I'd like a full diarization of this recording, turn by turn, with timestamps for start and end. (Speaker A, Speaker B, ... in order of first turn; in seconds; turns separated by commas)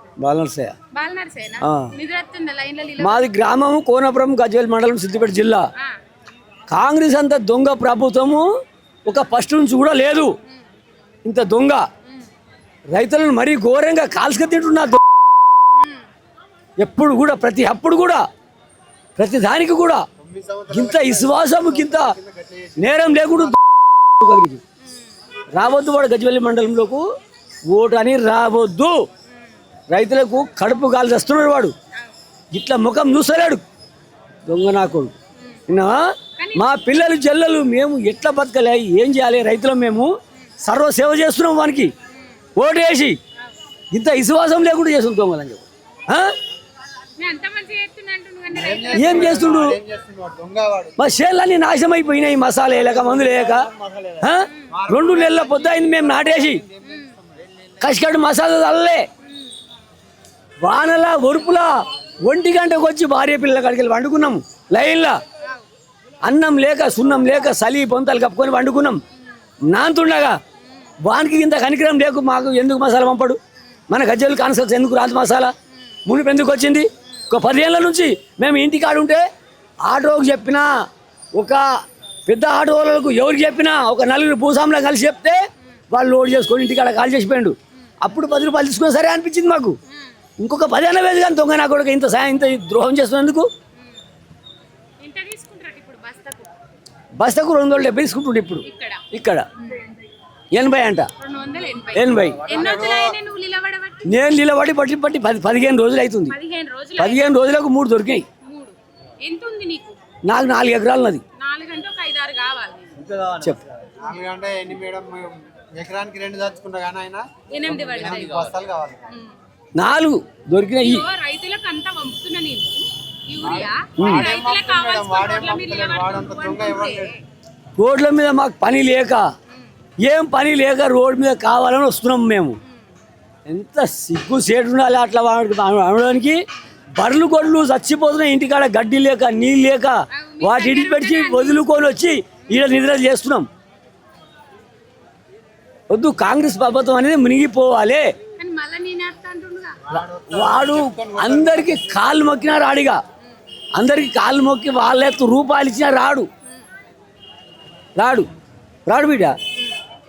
Speaker A: 0.2-0.8, Speaker B: 0.9-3.4, Speaker A: 1.6-1.9, Speaker A: 3.0-5.6, Speaker A: 6.7-8.5, Speaker A: 9.1-10.3, Speaker A: 11.2-11.8, Speaker A: 12.9-15.0, Speaker B: 15.8-16.1, Speaker A: 16.8-18.2, Speaker A: 19.2-20.0, Speaker C: 20.2-23.5, Speaker A: 20.7-22.1, Speaker A: 22.8-24.6, Speaker A: 25.6-27.0, Speaker A: 27.7-29.0, Speaker A: 29.9-31.7, Speaker A: 32.5-33.6, Speaker A: 34.5-35.1, Speaker A: 35.7-36.0, Speaker B: 36.4-36.7, Speaker A: 36.6-40.1, Speaker A: 40.6-41.9, Speaker A: 42.6-43.2, Speaker A: 43.9-46.3, Speaker B: 47.2-49.4, Speaker C: 48.5-51.0, Speaker A: 49.0-49.8, Speaker A: 51.0-53.7, Speaker C: 52.8-57.5, Speaker A: 54.2-56.6, Speaker B: 56.8-57.1, Speaker A: 57.8-59.1, Speaker A: 60.6-61.7, Speaker A: 62.2-65.2, Speaker A: 66.2-69.0, Speaker A: 69.7-70.4, Speaker A: 71.1-73.4, Speaker A: 73.9-75.5, Speaker A: 76.1-79.2, Speaker A: 79.9-80.7, Speaker A: 81.4-81.6, Speaker A: 82.3-85.4, Speaker A: 85.9-89.8, Speaker A: 90.4-93.5, Speaker B: 95.0-96.5, Speaker A: 97.2-99.5, Speaker B: 98.7-99.0, Speaker A: 100.5-101.1, Speaker B: 101.2-104.1, Speaker A: 101.9-102.5, Speaker A: 104.1-106.3, Speaker B: 106.3-107.3, Speaker A: 107.0-108.3, Speaker B: 108.4-110.0, Speaker A: 110.3-111.2, Speaker B: 111.4-112.9, Speaker A: 113.3-113.6, Speaker C: 114.0-119.0, Speaker B: 117.5-118.5, Speaker A: 119.8-121.0, Speaker B: 120.8-127.2, Speaker C: 123.4-127.2, Speaker A: 124.0-124.3, Speaker A: 127.8-129.2, Speaker A: 130.0-132.6, Speaker A: 133.5-136.4, Speaker A: 137.0-143.5, Speaker B: 140.1-141.6, Speaker A: 145.9-148.1, Speaker B: 148.4-149.8, Speaker C: 149.9-152.0, Speaker A: 150.3-153.0, Speaker A: 153.8-156.3, Speaker A: 158.0-158.3, Speaker A: 158.9-159.3